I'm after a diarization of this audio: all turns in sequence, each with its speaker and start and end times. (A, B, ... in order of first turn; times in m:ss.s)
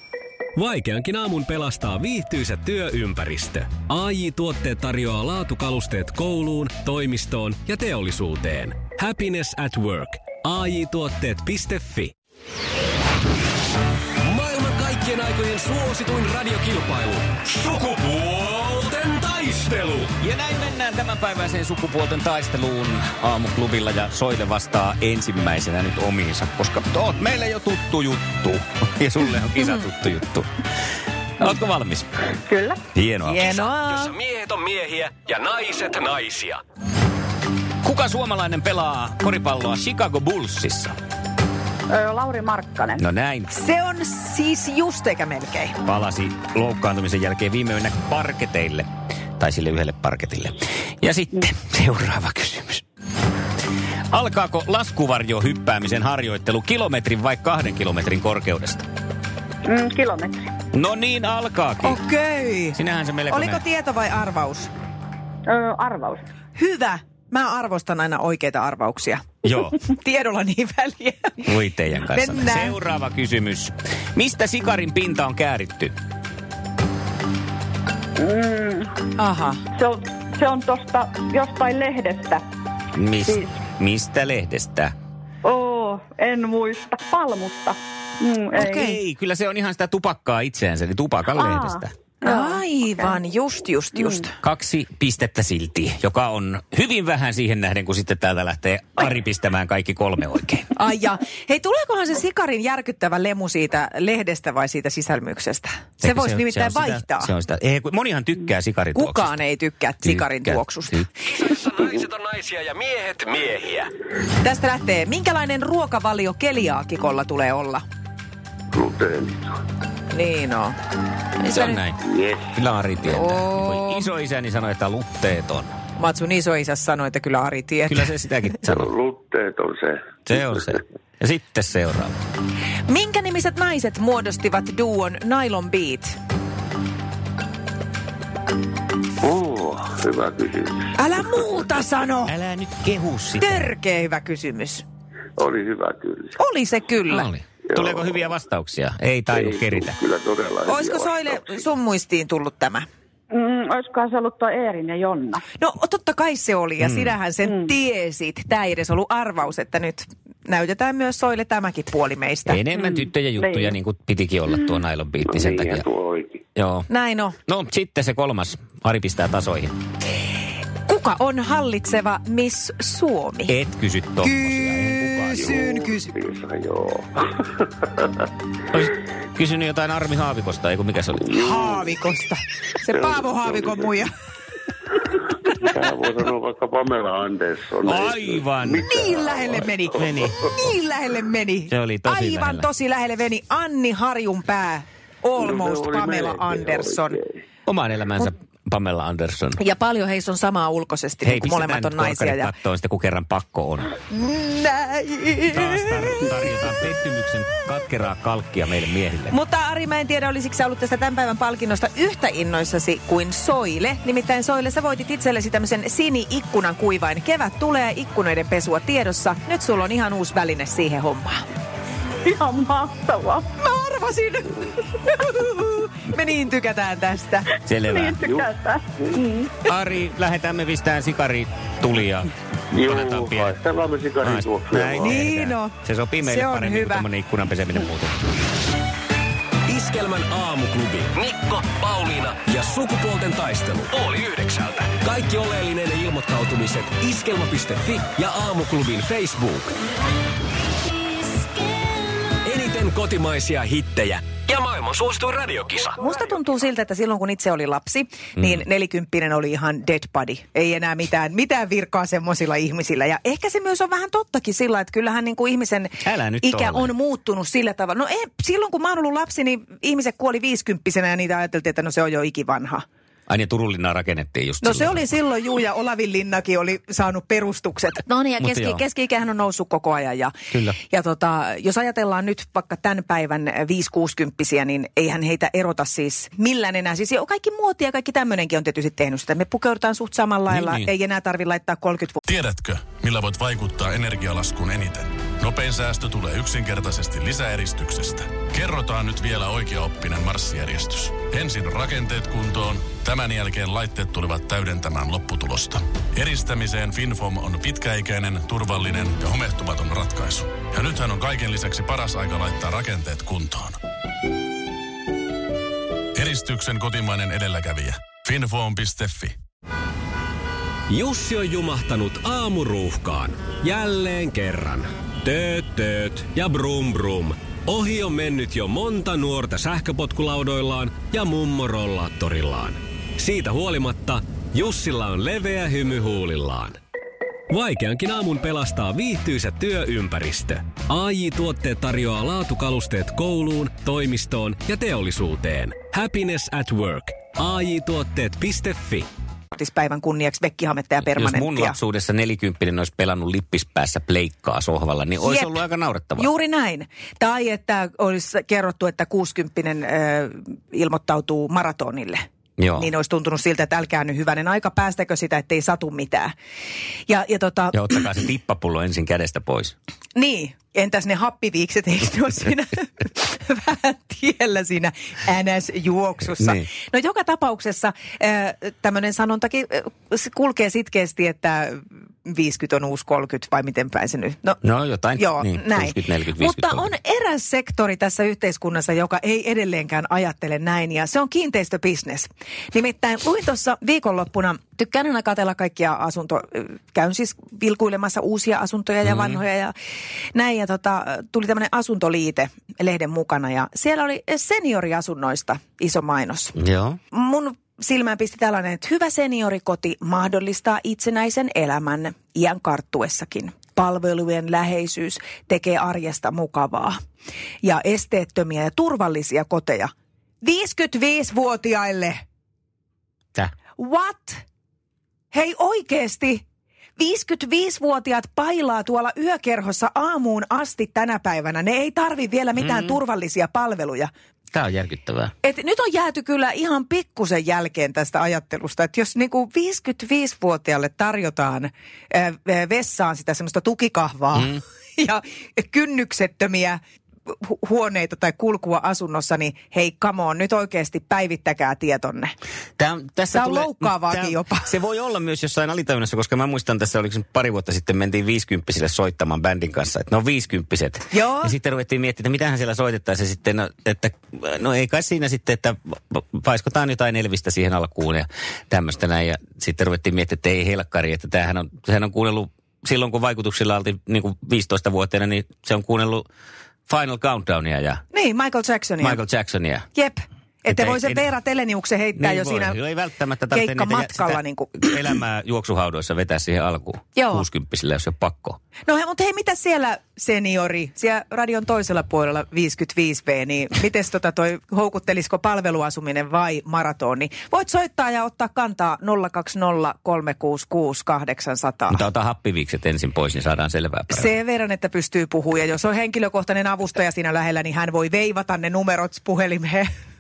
0:00.6-0:12.1 A
0:14.2-0:20.1 A
0:20.2-0:30.5 B
0:31.4-0:32.1 B
0:32.5-0:32.8 C
0:32.9-0:33.4 B
0:33.3-0:34.1 D
0:33.4-0:36.6 A
0:37.8-0:41.0 B
0:41.9-0:43.0 C
0:43.0-0:43.5 B
0:43.5-0:45.8 D
0:45.8-0:52.8 B
0:54.1-0:58.9 B
0:59.6-1:00.4 C
1:00.7-1:02.0 B
1:01.8-1:02.8 D
1:02.7-1:03.6 B
1:03.3-1:04.7 D
1:05.5-1:06.2 C
1:06.6-1:11.5 D
1:09.4-1:09.8 B
1:11.5-1:16.0 B
1:12.1-1:12.8 D
1:18.2-1:18.9 C
1:19.2-1:19.6 D
1:19.8-1:22.4 C
1:23.0-1:24.9 B
1:25.4-1:28.9 C
1:28.6-1:29.0 D
1:28.6-1:31.9 B
1:31.5-1:32.6 C
1:32.2-1:34.3 D
1:34.4-1:40.7 B
1:40.8-1:47.3 D
1:46.0-1:49.4 B
1:49.0-1:51.1 D
1:50.0-1:51.1 B
1:51.3-1:53.9 A
1:54.4-1:57.8 D
1:58.7-1:59.6 E
2:00.1-2:00.8 D
2:01.4-2:01.8 D
2:01.5-2:02.0 B
2:02.0-2:02.6 E
2:02.6-2:05.7 B
2:03.0-2:04.1 D
2:06.0-2:08.6 D
2:07.9-2:08.9 B
2:08.7-2:10.6 E
2:10.3-2:12.2 B
2:12.9-2:16.2 D
2:19.2-2:21.4 E
2:21.0-2:22.3 D
2:22.3-2:23.7 B
2:23.4-2:24.8 D
2:25.4-2:26.4 E
2:26.4-2:27.3 D
2:27.1-2:30.0 B
2:27.7-2:28.4 E
2:29.3-2:31.7 E
2:30.7-2:32.9 D
2:33.3-2:35.4 C
2:35.6-2:42.6 D
2:36.8-2:37.2 B
2:42.5-2:45.9 B
2:42.9-2:43.6 C
2:45.2-2:46.4 E
2:46.6-2:46.9 B
2:46.9-2:47.4 D
2:47.5-2:49.8 B
2:50.9-2:53.5 D
2:53.5-2:55.4 B
2:54.2-2:56.1 D
2:55.2-2:57.7 E
2:58.7-3:01.3 B
3:01.3-3:02.0 E
3:01.4-3:04.1 D
3:02.9-3:04.1 E
3:05.1-3:10.3 E
3:07.8-3:08.9 B
3:08.9-3:17.2 D
3:10.0-3:10.4 B
3:11.7-3:12.7 B
3:15.4-3:17.4 E
3:17.7-3:19.6 B
3:19.6-3:22.5 D
3:21.2-3:23.9 B
3:24.1-3:26.2 D
3:25.5-3:29.4 B
3:29.3-3:41.4 D
3:42.3-3:43.5 C
3:43.6-3:47.5 D
3:47.7-3:48.2 B
3:47.9-3:49.5 C
3:48.2-3:49.3 E
3:49.7-3:53.6 B
3:52.7-3:55.3 E
3:54.2-3:58.1 B
3:55.0-3:57.0 D
3:59.7-4:09.7 A
4:12.4-4:16.0 A
4:16.0-4:32.8 D
4:26.0-4:26.9 B
4:33.3-4:35.0 B
4:34.6-4:52.2 D
4:38.4-4:38.8 B
4:50.5-4:50.9 B
4:52.3-5:13.8 F
5:16.2-5:19.4 F
5:20.9-5:36.8 A
5:37.5-5:49.1 A
5:49.5-5:51.8 D
5:51.0-5:56.3 B
5:55.2-5:55.6 D
5:56.2-6:02.2 D
6:02.6-6:02.9 B
6:02.8-6:06.3 D
6:07.1-6:07.8 D
6:07.7-6:09.8 B
6:10.2-6:24.6 D
6:16.4-6:16.6 B
6:24.6-6:26.9 B
6:25.2-6:39.7 D
6:39.0-6:39.4 B
6:40.3-6:46.6 D
6:46.6-6:47.0 B
6:47.1-6:57.0 D
6:57.6-6:59.9 D
7:00.4-7:02.2 D
7:03.8-7:04.4 D
7:05.3-7:06.4 D
7:07.0-7:14.1 D
7:12.6-7:13.0 B
7:14.5-7:15.3 B
7:15.4-7:26.8 D
7:24.4-7:24.6 B
7:27.4-7:32.3 D
7:32.8-7:56.3 B
7:33.3-7:34.7 D
7:41.1-7:41.5 D
7:56.9-7:58.0 B
7:58.1-7:59.2 D
7:59.0-7:59.9 B
8:00.0-8:02.8 D
8:00.7-8:01.2 B
8:02.2-8:08.6 B
8:03.5-8:05.0 D
8:07.2-8:07.4 D
8:08.9-8:22.0 D
8:21.9-8:24.3 B
8:24.1-8:29.9 D